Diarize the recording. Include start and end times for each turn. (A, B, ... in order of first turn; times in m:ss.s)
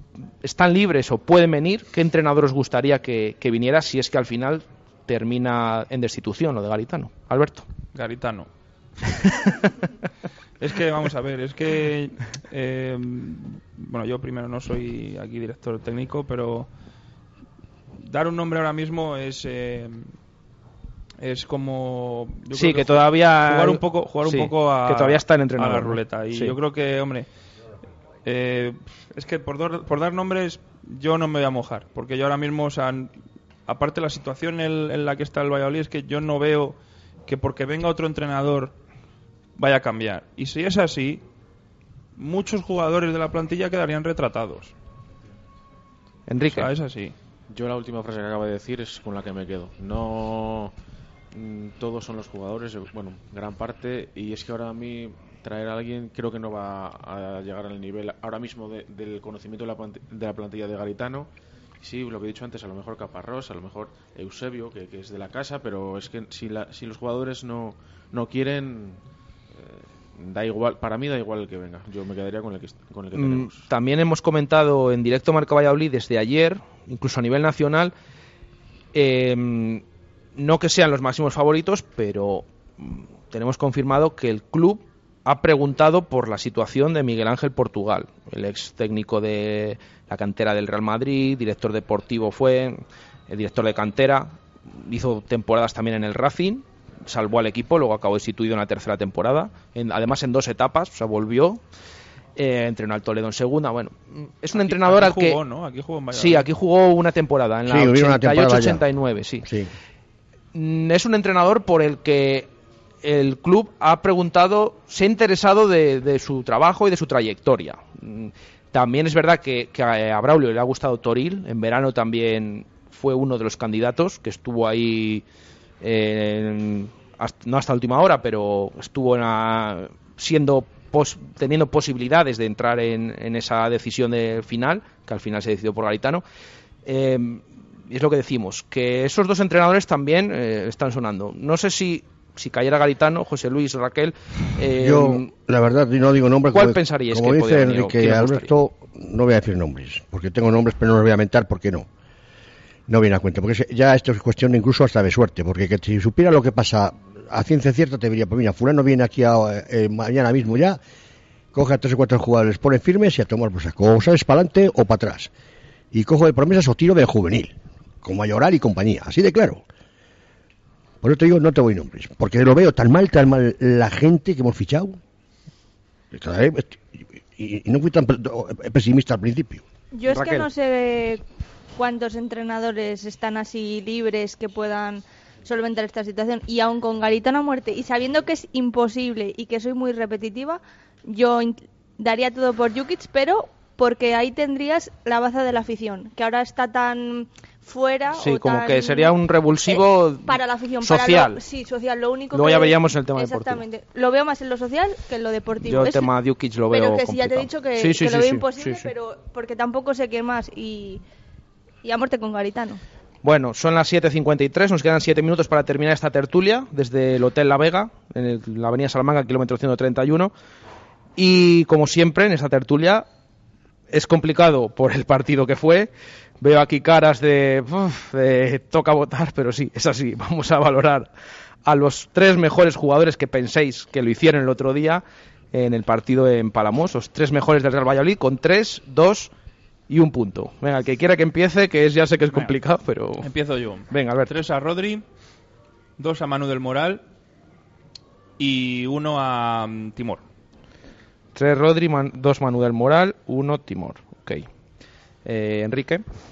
0:00.4-0:07.7 A
0:07.9-0:08.5 B
0:10.6-0:16.7 B
0:18.0-0:20.1 B
0:21.2-0:27.3 B
0:22.5-0:26.6 A
0:28.2-0:33.1 B
0:33.7-0:38.7 B
0:39.6-0:41.2 B
0:42.2-0:44.7 B
0:46.3-0:46.7 A
0:46.5-0:47.2 B
0:47.5-0:50.7 C
0:51.3-1:09.0 C
1:09.5-1:13.7 C
1:13.1-1:17.9 A
1:18.9-1:19.8 A
1:20.4-1:41.6 A
1:42.4-1:45.4 A
1:44.6-1:46.5 B
1:46.1-1:49.5 A
1:47.7-1:48.9 D
1:49.4-1:49.7 D
1:50.5-1:52.5 A
1:53.0-2:05.2 A
2:05.8-2:16.2 A
2:16.9-2:25.3 A
2:24.8-2:31.9 D
2:26.5-2:28.6 A
2:32.9-2:40.8 D
2:41.5-2:45.3 D
2:45.9-2:49.6 D
2:51.0-2:55.0 D
2:56.1-2:59.6 D
2:59.9-3:01.2 E
3:00.1-3:00.5 A
3:01.8-3:19.1 E
3:18.1-3:21.4 A
3:19.7-3:26.1 E
3:22.3-3:23.6 A
3:25.6-3:28.9 A
3:26.7-3:31.0 E
3:31.8-3:32.8 E
3:33.2-3:40.3 A
3:41.2-3:43.1 A
3:43.9-3:51.1 A
3:51.7-3:59.3 A
3:59.9-4:03.3 A
4:03.2-4:05.0 B
4:03.9-4:04.3 A
4:06.0-4:07.0 B
4:08.4-4:10.2 B
4:11.4-4:14.5 A
4:15.3-4:16.0 A